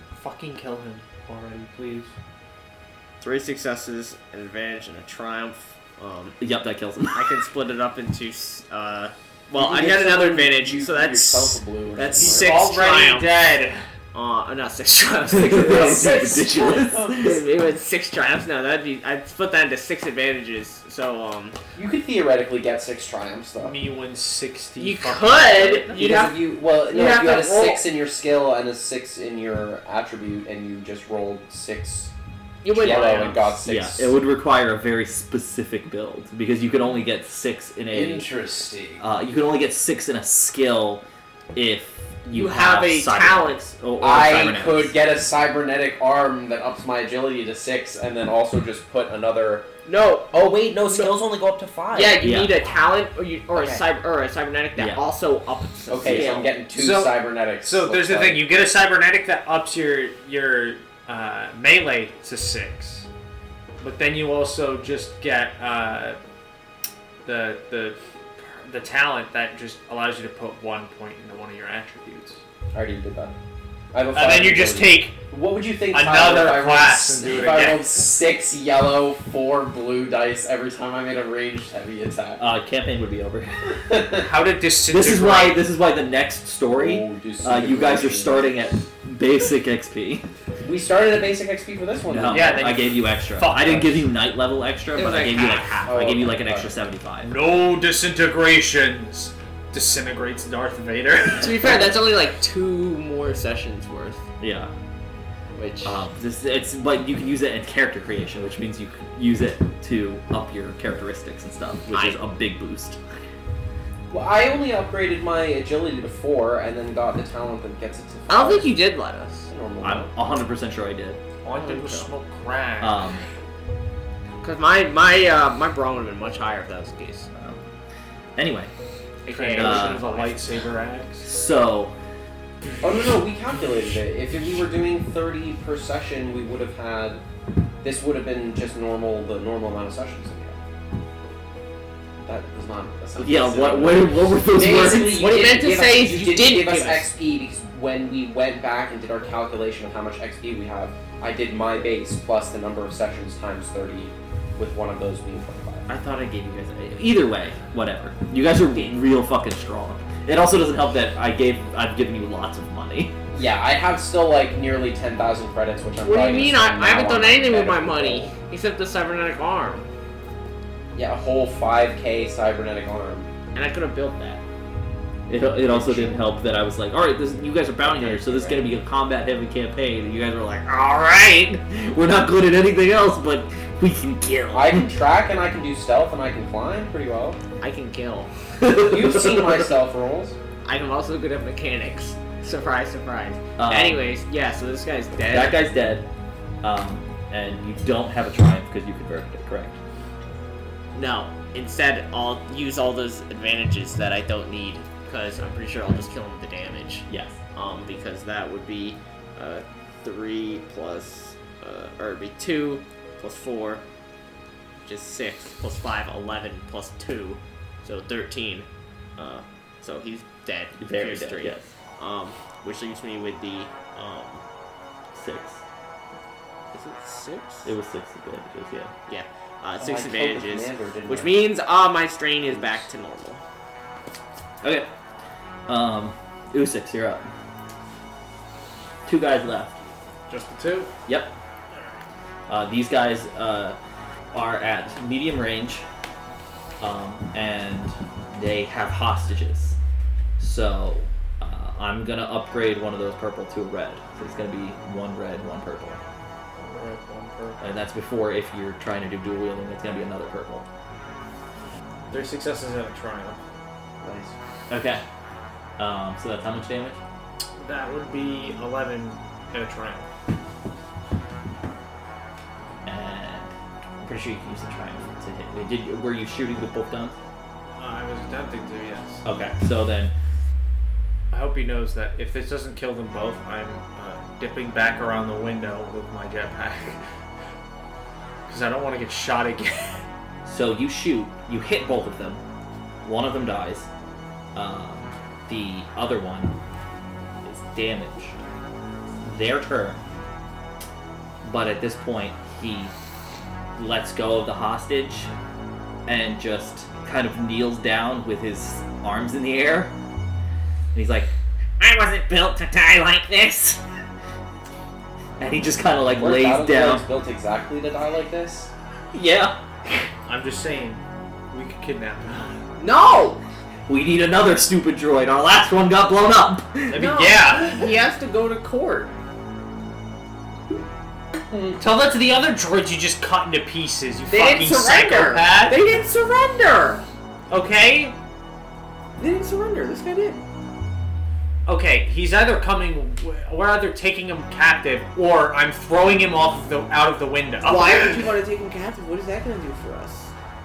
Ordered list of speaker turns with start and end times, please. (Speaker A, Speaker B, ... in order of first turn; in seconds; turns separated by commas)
Speaker A: 0.2-2.1, Speaker B: 3.2-6.3, Speaker C: 6.4-7.3, Speaker B: 7.1-13.3, Speaker D: 9.5-12.5, Speaker A: 12.2-13.8, Speaker B: 14.1-21.6, Speaker C: 15.3-17.4, Speaker D: 15.6-17.4, Speaker D: 21.8-23.8, Speaker A: 23.6-25.9, Speaker B: 24.8-27.8, Speaker D: 25.9-32.1, Speaker B: 32.6-33.6, Speaker D: 32.7-34.2, Speaker C: 33.6-38.3, Speaker D: 37.9-39.0, Speaker C: 39.0-45.0, Speaker B: 42.3-43.7, Speaker D: 44.0-49.7, Speaker B: 49.9-51.2, Speaker D: 50.3-52.2, Speaker B: 51.9-56.6, Speaker C: 52.2-52.6, Speaker D: 53.5-53.8, Speaker C: 54.8-55.0, Speaker D: 55.9-58.7, Speaker A: 56.7-63.1, Speaker A: 63.8-66.2, Speaker A: 67.2-72.4, Speaker D: 72.7-73.3, Speaker D: 73.9-82.4, Speaker A: 74.1-75.2, Speaker A: 75.9-77.9, Speaker C: 82.4-83.8, Speaker D: 83.8-84.3, Speaker A: 84.2-85.6, Speaker C: 84.9-90.3, Speaker D: 86.7-88.5, Speaker D: 90.6-92.7, Speaker C: 92.1-97.4, Speaker A: 92.3-94.0, Speaker B: 95.0-96.0, Speaker D: 95.9-96.8, Speaker A: 97.2-101.9, Speaker B: 101.4-104.2, Speaker C: 104.4-104.7, Speaker B: 105.6-106.0, Speaker C: 105.8-113.0, Speaker B: 111.9-112.2, Speaker D: 114.1-118.8, Speaker B: 118.3-119.5, Speaker D: 119.5-120.1, Speaker C: 119.8-121.2, Speaker A: 121.4-123.1, Speaker B: 121.5-122.1, Speaker C: 122.8-123.2, Speaker B: 124.4-127.3, Speaker C: 127.3-127.6, Speaker C: 128.4-128.7, Speaker B: 129.2-130.6, Speaker A: 129.3-131.3, Speaker C: 129.5-130.1, Speaker C: 131.2-131.9, Speaker D: 132.8-137.2, Speaker D: 137.8-140.6, Speaker D: 142.2-155.9, Speaker C: 143.2-145.3, Speaker B: 144.9-147.1, Speaker C: 155.9-163.2, Speaker D: 163.3-168.3, Speaker B: 166.0-169.9, Speaker D: 170.9-173.3, Speaker B: 173.5-174.4, Speaker C: 175.3-184.9, Speaker D: 175.7-176.2, Speaker D: 177.8-178.7, Speaker D: 184.5-187.4, Speaker B: 187.6-188.3, Speaker C: 188.6-189.6, Speaker D: 188.7-190.4, Speaker B: 190.7-195.6, Speaker C: 193.6-194.0, Speaker C: 195.3-196.1, Speaker C: 196.6-199.8, Speaker B: 200.9-213.8, Speaker C: 207.1-207.4, Speaker B: 214.8-224.4, Speaker C: 220.8-221.7, Speaker C: 225.1-225.6, Speaker B: 226.7-227.7, Speaker C: 227.7-228.9, Speaker B: 229.1-233.4, Speaker D: 229.8-231.5, Speaker D: 232.5-232.8, Speaker C: 234.6-234.9, Speaker C: 235.7-237.3, Speaker C: 239.1-239.8, Speaker A: 240.3-240.9, Speaker C: 241.1-241.3, Speaker C: 242.5-243.8, Speaker C: 244.3-245.8, Speaker C: 246.8-249.8, Speaker C: 250.4-256.0, Speaker A: 256.6-257.6, Speaker C: 257.6-260.7, Speaker A: 262.1-263.4, Speaker D: 264.0-264.4, Speaker C: 264.7-265.0, Speaker C: 265.8-267.0, Speaker A: 267.6-270.1, Speaker C: 272.9-277.2, Speaker A: 277.7-279.2, Speaker C: 279.2-280.1, Speaker A: 281.3-287.0, Speaker A: 288.5-290.0, Speaker C: 290.4-292.4, Speaker C: 293.0-293.9, Speaker C: 294.6-296.6, Speaker C: 297.4-298.4, Speaker C: 299.2-300.0, Speaker C: 301.4-302.9, Speaker C: 303.8-305.3, Speaker C: 306.1-309.9, Speaker C: 310.9-311.3, Speaker E: 311.8-313.8, Speaker B: 312.0-313.2, Speaker C: 315.4-317.1, Speaker D: 316.1-318.7, Speaker C: 319.1-319.6, Speaker A: 320.3-322.6, Speaker B: 322.8-323.4, Speaker C: 323.9-326.9, Speaker A: 326.9-327.9, Speaker B: 326.9-329.1, Speaker D: 331.5-331.8, Speaker A: 331.8-335.8, Speaker B: 334.3-337.0, Speaker A: 337.5-338.2, Speaker B: 339.2-340.4, Speaker A: 341.7-348.3, Speaker B: 347.6-350.3